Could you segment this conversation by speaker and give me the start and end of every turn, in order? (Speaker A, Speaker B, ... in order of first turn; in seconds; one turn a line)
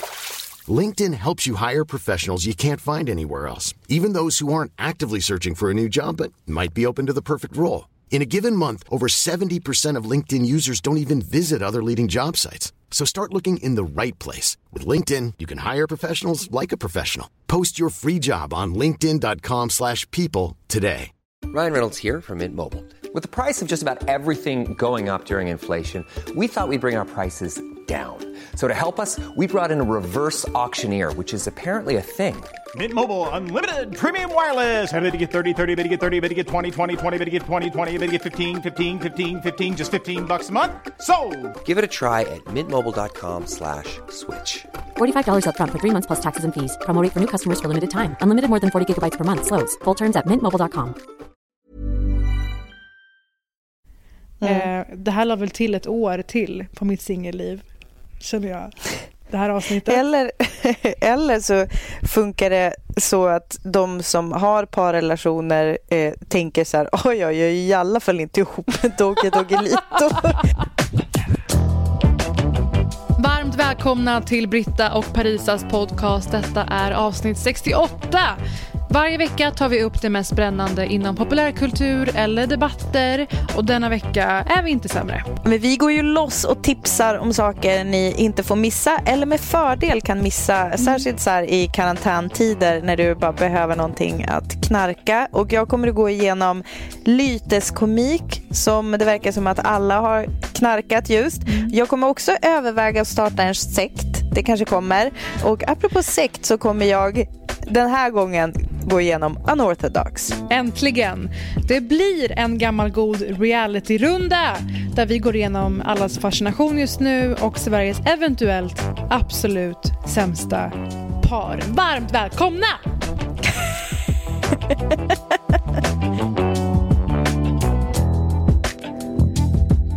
Speaker A: 0.7-21.1
Speaker B: 21.5-32.5
Speaker C: 32.7-41.6
Speaker B: 41.6-44.7
Speaker D: 45.0-51.0
Speaker E: 54.4-54.7
Speaker F: 54.4-57.6
Speaker F: 58.2-58.7
Speaker F: 59.3-60.0
Speaker E: 59.8-70.4
Speaker F: 73.2-85.3
Speaker E: 85.4-110.4
Speaker F: 101.5-101.7
Speaker F: 110.5-122.9